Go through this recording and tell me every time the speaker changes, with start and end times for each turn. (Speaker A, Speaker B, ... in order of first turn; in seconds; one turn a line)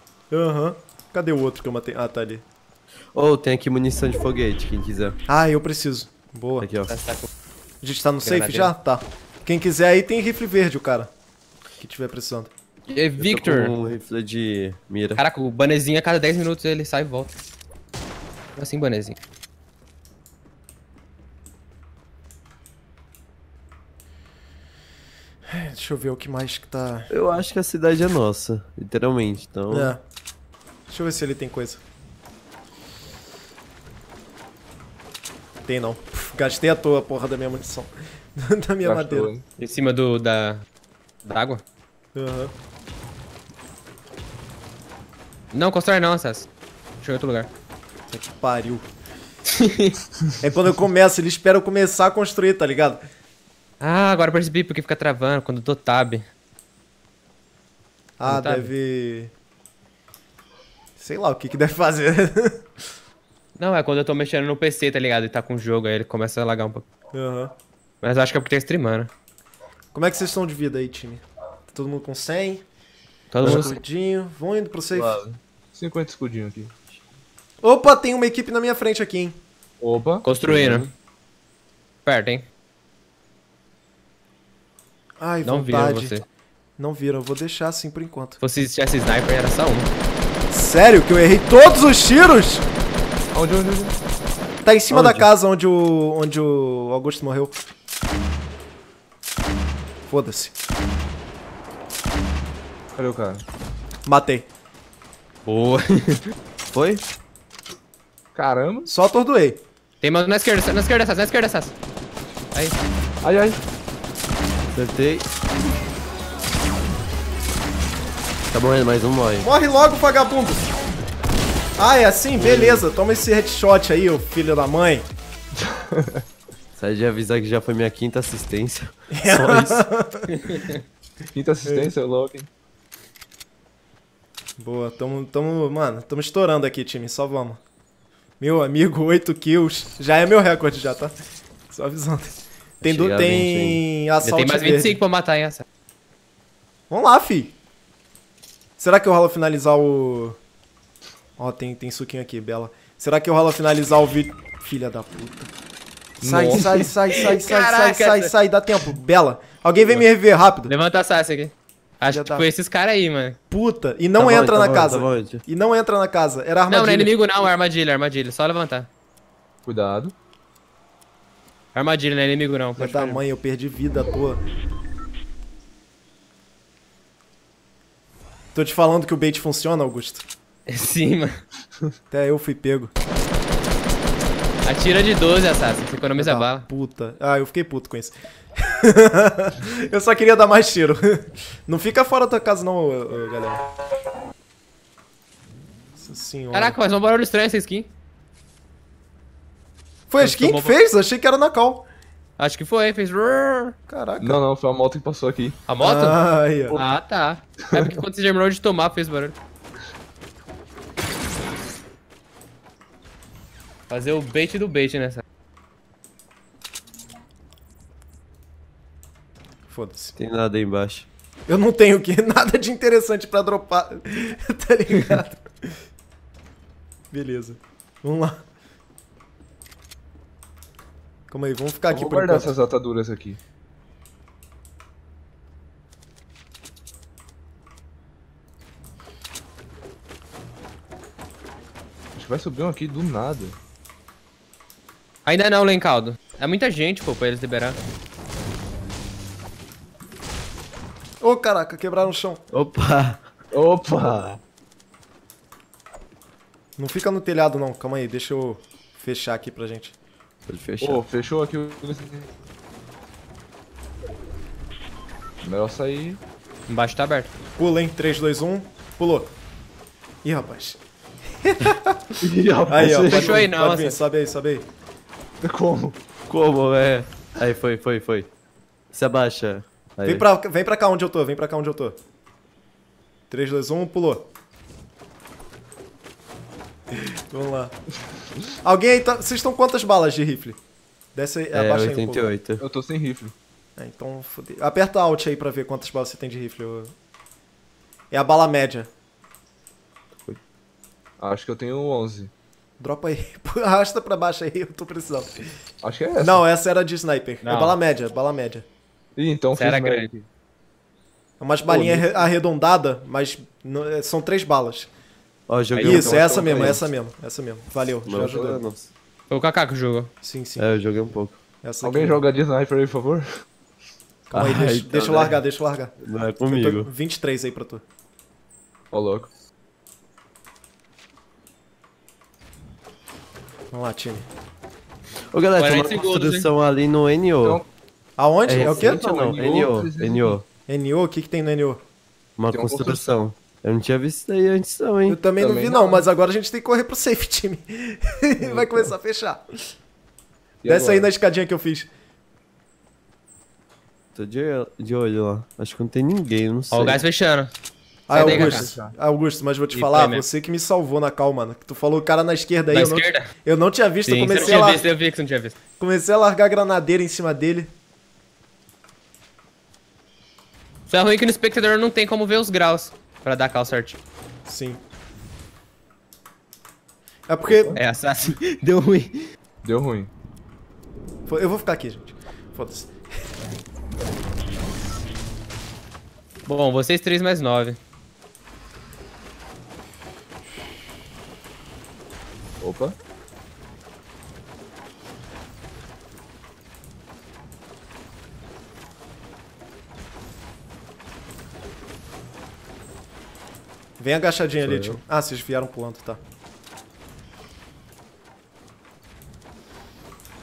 Speaker A: 0.3-2.5
Speaker B: 3.1-5.2
Speaker A: 5.3-6.7
Speaker B: 6.6-7.0
Speaker C: 6.9-7.3
Speaker A: 7.8-11.1
Speaker C: 8.2-8.8
Speaker A: 11.8-12.5
Speaker C: 12.9-13.8
Speaker B: 13.2-15.2
Speaker C: 15.2-17.3
Speaker C: 18.6-19.2
Speaker A: 25.5-27.1
Speaker B: 27.1-29.9
Speaker A: 29.7-30.0
Speaker A: 30.9-31.8
Speaker A: 35.7-39.3
Speaker D: 38.8-39.5
Speaker C: 39.6-40.6
Speaker C: 41.2-41.6
Speaker A: 42.1-42.5
Speaker C: 45.5-46.5
Speaker C: 47.0-47.5
Speaker A: 48.1-48.9
Speaker C: 49.6-49.9
Speaker A: 50.4-53.0
Speaker C: 53.8-56.3
Speaker A: 58.2-59.3
Speaker C: 58.2-58.7
Speaker A: 61.0-62.6
Speaker C: 63.6-66.9
Speaker A: 67.1-67.5
Speaker C: 68.0-69.1
Speaker A: 69.9-72.6
Speaker C: 73.3-73.8
Speaker B: 73.4-73.8
Speaker A: 73.4-75.2
Speaker B: 74.9-75.4
Speaker D: 75.7-76.7
Speaker A: 77.6-79.4
Speaker D: 79.8-80.3
Speaker C: 80.2-80.9
Speaker B: 80.4-80.9
Speaker C: 82.0-82.5
Speaker A: 85.2-86.2
Speaker C: 85.4-86.2
Speaker A: 86.8-88.4
Speaker C: 88.4-89.9
Speaker A: 90.5-92.7
Speaker D: 93.3-94.0
Speaker A: 94.6-97.5
Speaker D: 94.9-95.3
Speaker A: 100.1-100.5
Speaker D: 103.0-103.4
Speaker A: 104.1-104.5
Speaker C: 105.5-106.2
Speaker B: 106.7-107.0
Speaker D: 108.3-108.9
Speaker A: 108.9-109.6
Speaker C: 110.0-111.7
Speaker D: 113.2-113.6
Speaker B: 114.7-115.3
Speaker B: 118.5-119.5
Speaker A: 119.4-120.6
Speaker A: 121.8-125.1
Speaker B: 122.4-122.8
Speaker D: 125.9-126.2
Speaker B: 126.8-129.8
Speaker A: 129.1-130.3
Speaker C: 130.4-130.8
Speaker D: 131.3-132.5
Speaker A: 131.7-131.9
Speaker A: 134.6-137.6
Speaker A: 138.4-141.1
Speaker A: 141.7-145.0
Speaker B: 142.8-143.8
Speaker C: 144.2-145.7
Speaker A: 146.9-147.6
Speaker A: 148.8-150.4
Speaker A: 151.4-155.5
Speaker D: 156.2-156.9
Speaker A: 156.2-160.7
Speaker C: 157.1-158.3
Speaker C: 160.7-163.4
Speaker A: 162.1-162.5
Speaker A: 163.5-167.2
Speaker B: 164.2-165.4
Speaker C: 166.7-168.9
Speaker D: 169.7-170.1
Speaker C: 171.8-173.2
Speaker A: 172.8-174.4
Speaker A: 178.5-180.3
Speaker C: 180.7-181.4
Speaker A: 182.1-182.9
Speaker C: 184.6-186.7
Speaker A: 186.2-193.6
Speaker A: 196.0-196.8
Speaker C: 196.5-197.9
Speaker A: 200.1-201.9
Speaker C: 200.2-200.8
Speaker C: 202.4-203.8
Speaker A: 203.9-204.4
Speaker D: 204.2-205.6
Speaker C: 205.7-206.2
Speaker A: 205.8-206.8
Speaker C: 206.7-209.4
Speaker C: 213.9-215.2
Speaker A: 219.7-220.2
Speaker B: 220.2-221.1
Speaker A: 221.5-225.7
Speaker A: 227.1-228.4
Speaker A: 231.3-232.5
Speaker D: 231.9-233.4
Speaker D: 242.2-243.6
Speaker C: 245.2-247.8
Speaker A: 251.2-252.4
Speaker B: 252.5-253.2
Speaker D: 253.5-254.4
Speaker A: 256.8-260.0
Speaker B: 260.5-261.0
Speaker D: 260.8-262.3
Speaker D: 265.4-266.2
Speaker C: 266.7-267.3
Speaker A: 267.6-269.3
Speaker A: 270.2-270.8
Speaker A: 271.4-272.1
Speaker D: 272.2-273.4
Speaker A: 272.7-274.7
Speaker C: 273.0-274.0
Speaker D: 275.4-276.0
Speaker B: 276.3-278.3
Speaker B: 278.9-280.2
Speaker A: 280.1-282.0
Speaker A: 283.3-284.3
Speaker A: 286.9-287.8
Speaker A: 288.6-290.6
Speaker A: 291.1-292.3
Speaker B: 291.5-292.6
Speaker D: 292.6-293.3
Speaker A: 293.8-296.9
Speaker A: 298.1-298.9
Speaker D: 301.2-302.3
Speaker A: 302.8-305.4
Speaker D: 305.8-306.5
Speaker A: 306.2-308.6
Speaker C: 307.4-307.8
Speaker D: 309.2-310.3
Speaker C: 309.6-310.1
Speaker A: 311.4-314.9
Speaker D: 311.6-312.3
Speaker B: 315.5-316.7
Speaker D: 315.8-316.8
Speaker A: 315.8-318.7
Speaker B: 318.0-318.9
Speaker D: 318.2-318.6
Speaker C: 319.3-320.1
Speaker A: 320.2-320.7
Speaker B: 320.6-321.4
Speaker A: 321.6-322.2
Speaker D: 321.8-323.3
Speaker A: 324.3-325.9
Speaker B: 324.3-325.4
Speaker B: 326.0-326.9
Speaker A: 326.5-327.8
Speaker D: 328.9-329.3
Speaker A: 333.7-334.3
Speaker B: 335.3-337.6
Speaker C: 335.6-336.5
Speaker A: 338.2-339.0
Speaker B: 338.5-340.4
Speaker D: 338.5-340.4
Speaker A: 340.7-341.8
Speaker B: 342.4-345.2
Speaker D: 342.5-343.2
Speaker A: 345.1-349.4
Speaker D: 345.4-346.1
Speaker D: 348.4-348.9
Speaker D: 350.6-351.1
Speaker A: 350.6-351.9
Speaker B: 354.1-357.0
Speaker C: 356.7-357.5
Speaker A: 358.1-364.9
Speaker C: 358.1-358.7
Speaker D: 358.1-358.9
Speaker C: 359.7-360.2
Speaker C: 362.7-363.3
Speaker C: 364.1-365.6
Speaker A: 365.8-367.7
Speaker C: 370.9-374.0
Speaker A: 374.5-374.8
Speaker A: 377.3-377.8
Speaker D: 377.5-377.8
Speaker C: 377.8-379.2
Speaker D: 379.6-380.1
Speaker A: 381.3-383.0
Speaker C: 386.5-387.8
Speaker D: 392.6-392.9
Speaker A: 404.0-406.2
Speaker B: 404.6-405.0